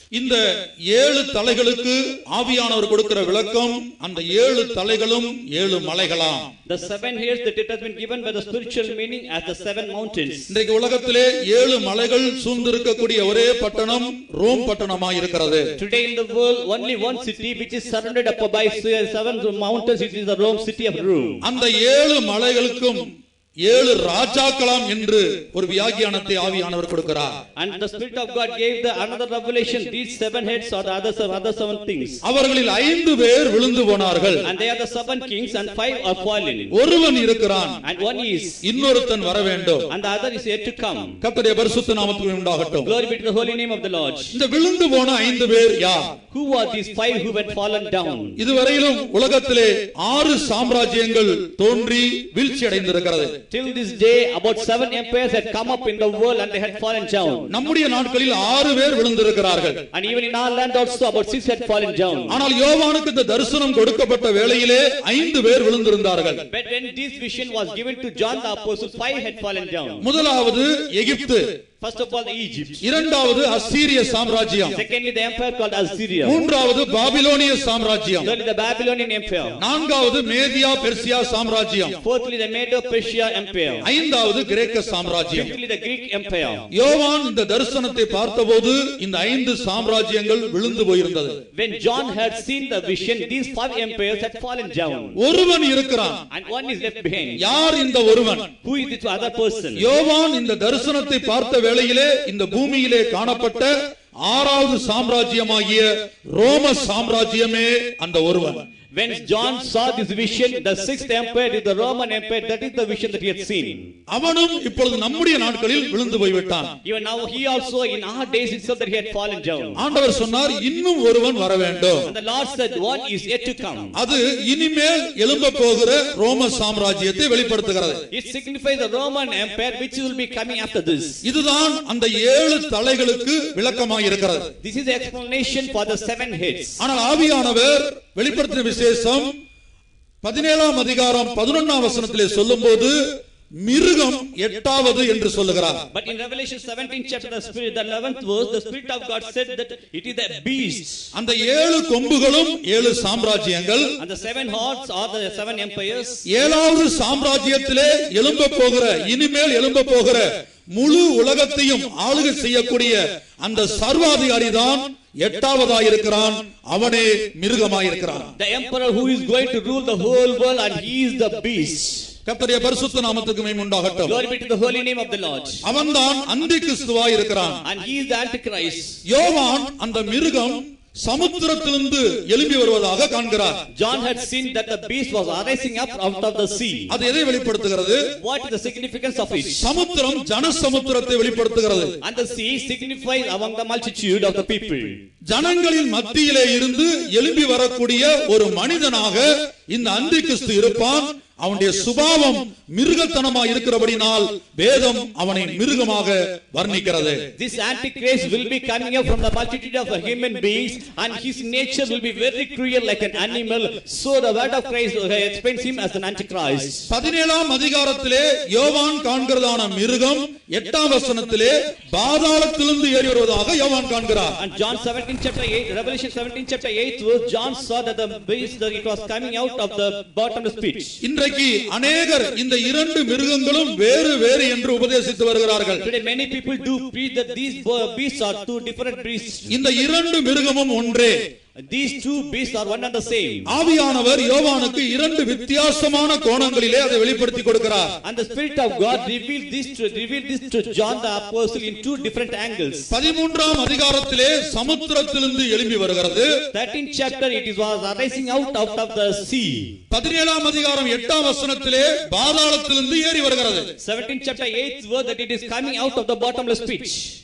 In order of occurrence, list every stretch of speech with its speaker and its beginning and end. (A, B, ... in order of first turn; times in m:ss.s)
0:00.1-0:06.5 A
0:06.6-0:10.5 B
0:10.5-0:15.7 A
0:15.8-0:21.4 B
0:21.4-0:23.1 A
0:23.6-0:27.4 A
0:27.6-0:32.2 B
0:32.2-0:34.5 A
0:34.4-0:36.8 B
0:36.7-0:37.8 A
0:37.8-0:38.6 B
0:38.6-0:39.9 A
0:39.9-0:41.2 B
0:41.2-0:42.9 A
0:42.8-0:44.4 B
0:44.3-0:46.1 A
0:46.3-0:48.4 B
0:48.4-0:53.4 A
0:53.5-0:57.5 B
0:57.5-0:59.8 A
0:59.9-1:02.4 B
1:02.3-1:06.4 A
1:06.5-1:10.1 B
1:10.0-1:11.5 A
1:11.8-1:12.8 B
1:12.8-1:14.8 A
1:14.7-1:16.4 B
1:16.2-1:18.3 A
1:18.2-1:19.6 B
1:19.6-1:22.0 A
1:22.0-1:23.9 B
1:23.8-1:25.5 A
1:25.3-1:26.7 B
1:26.7-1:31.4 A
1:31.5-1:35.2 B
1:35.2-1:36.2 A
1:36.3-1:37.4 B
1:37.4-1:38.5 A
1:38.6-1:39.9 B
1:39.8-1:43.7 A
1:44.2-1:48.6 A
1:48.9-1:53.9 B
1:54.1-1:56.7 A
1:56.8-1:59.8 B
1:59.8-2:02.1 A
2:02.0-2:04.0 B
2:03.9-2:08.0 A
2:08.1-2:11.2 B
2:11.2-2:14.5 A
2:14.6-2:16.8 B
2:16.8-2:19.4 A
2:20.2-2:23.0 A
2:23.6-2:25.8 A
2:25.9-2:31.0 B
2:31.1-2:33.9 A
2:34.0-2:36.2 B
2:36.3-2:48.3 A
2:48.4-2:52.1 B
2:52.2-2:54.2 A
2:54.0-2:55.6 B
2:55.6-2:57.6 A
2:57.6-2:59.0 B
2:59.0-3:03.6 A
3:03.7-3:07.0 B
3:06.9-3:08.0 A
3:08.2-3:09.6 B
3:09.5-3:12.0 A
3:12.0-3:15.0 B
3:15.3-3:27.2 A
3:27.4-3:36.8 B
3:36.9-3:44.4 A
3:44.4-3:51.0 B
3:51.0-3:55.8 A
3:55.8-3:59.6 B
3:59.5-4:01.2 A
4:01.6-4:03.5 B
4:03.5-4:07.9 A
4:08.0-4:12.9 B
4:12.9-4:16.3 A
4:16.5-4:19.8 B
4:19.9-4:23.7 A
4:23.8-4:27.1 B